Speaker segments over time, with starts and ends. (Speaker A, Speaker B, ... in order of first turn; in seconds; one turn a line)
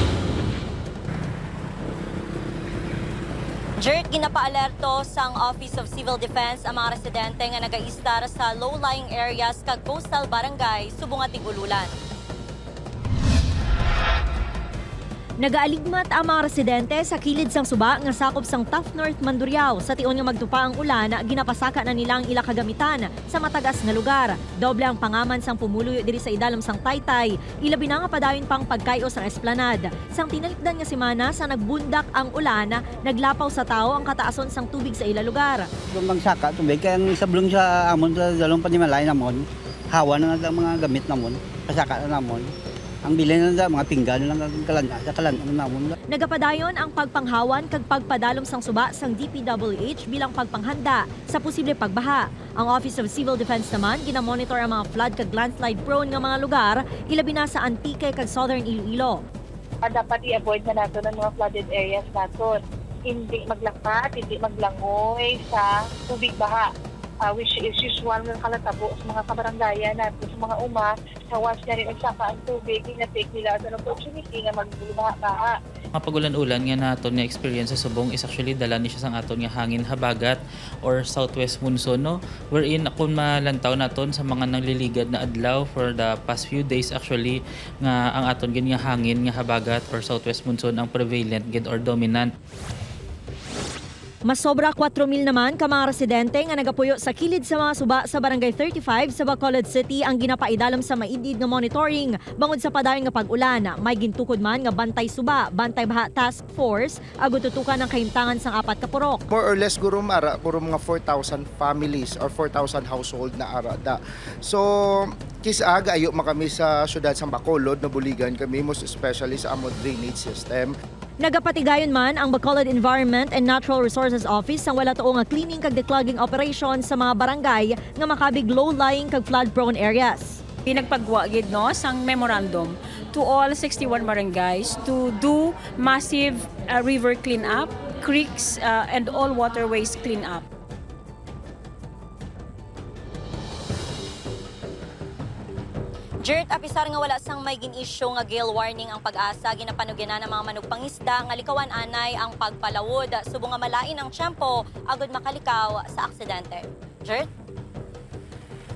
Speaker A: 3.8-11.9
Speaker B: 15.4-35.7
Speaker C: 35.9-42.5
Speaker C: 43.0-45.9
Speaker B: 46.1-59.2
Speaker D: 59.8-66.7
Speaker D: 67.2-75.6
Speaker E: 76.0-92.3
Speaker B: 94.3-109.2
Speaker F: 109.3-120.7
Speaker B: 121.2-130.4
Speaker G: 130.8-132.7
Speaker G: 133.2-140.4
Speaker A: 146.2-157.3